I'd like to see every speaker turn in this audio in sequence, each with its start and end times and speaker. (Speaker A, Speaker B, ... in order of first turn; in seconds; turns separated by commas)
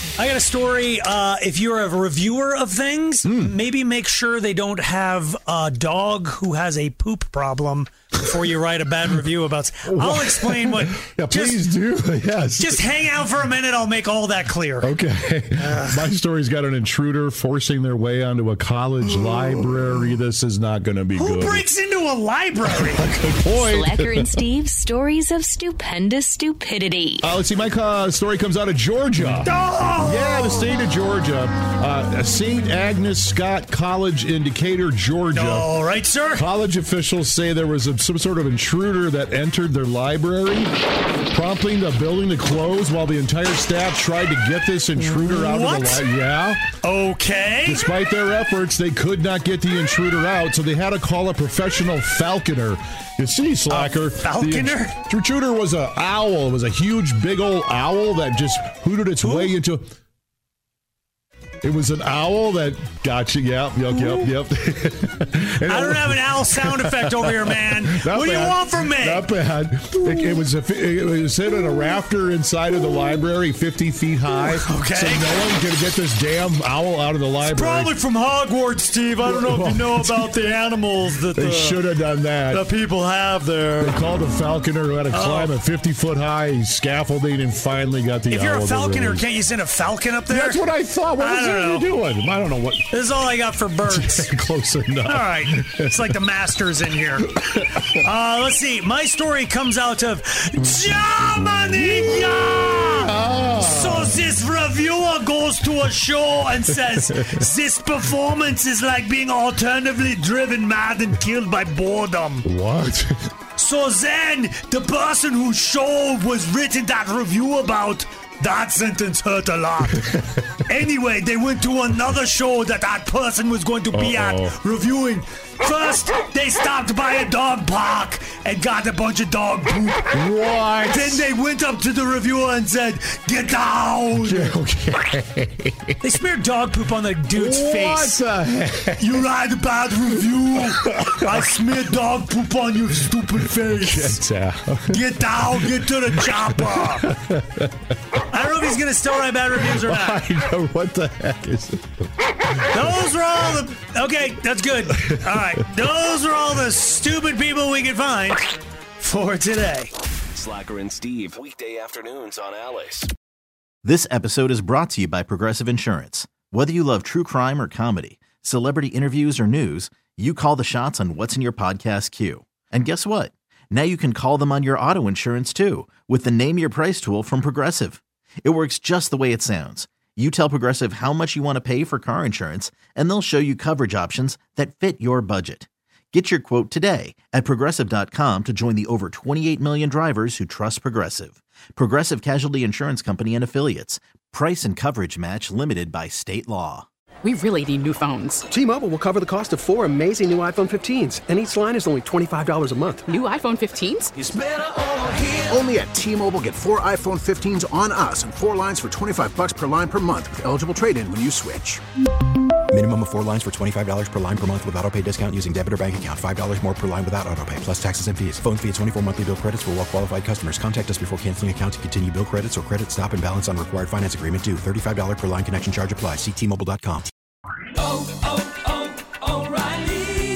Speaker A: 0.2-11.6, Speaker B: 3.2-3.6, Speaker B: 9.9-12.9, Speaker A: 12.6-14.9, Speaker B: 14.8-21.7, Speaker A: 15.6-16.1, Speaker A: 21.1-23.2, Speaker B: 22.7-24.3, Speaker C: 23.5-27.3, Speaker B: 27.2-35.7, Speaker A: 29.4-30.6, Speaker A: 35.3-36.4, Speaker B: 36.4-40.7, Speaker B: 41.3-46.7, Speaker A: 45.0-46.0, Speaker A: 46.8-47.8, Speaker B: 47.6-59.9, Speaker A: 53.7-55.0, Speaker A: 59.2-59.5, Speaker B: 61.6-77.9, Speaker A: 65.7-69.3, Speaker A: 74.5-75.2, Speaker A: 77.4-81.8, Speaker B: 79.2-80.3, Speaker B: 81.3-82.7, Speaker A: 82.5-84.0, Speaker B: 83.8-89.2, Speaker A: 85.1-85.5, Speaker A: 88.3-90.6, Speaker B: 90.3-92.9, Speaker A: 91.2-91.9, Speaker A: 92.9-94.3, Speaker B: 93.9-96.2, Speaker A: 95.1-97.3, Speaker A: 98.0-112.4, Speaker B: 101.4-102.3, Speaker B: 102.9-104.3, Speaker B: 106.9-107.5, Speaker B: 112.4-113.3, Speaker A: 113.6-120.0, Speaker A: 120.7-130.1, Speaker B: 123.9-124.6, Speaker B: 130.1-131.2, Speaker A: 130.8-134.5, Speaker B: 134.2-135.9, Speaker A: 136.0-138.2, Speaker B: 137.3-139.2, Speaker A: 139.0-144.2, Speaker B: 140.2-141.4, Speaker B: 143.4-145.0, Speaker A: 144.9-147.1, Speaker B: 145.6-147.7, Speaker A: 148.3-150.2, Speaker B: 149.6-151.8, Speaker A: 152.7-159.9, Speaker B: 154.9-155.2, Speaker D: 160.3-163.1, Speaker E: 163.8-196.9, Speaker F: 197.2-198.4, Speaker G: 198.5-203.1, Speaker F: 203.1-204.1, Speaker H: 204.2-211.8, Speaker I: 212.7-227.1, Speaker H: 228.0-229.8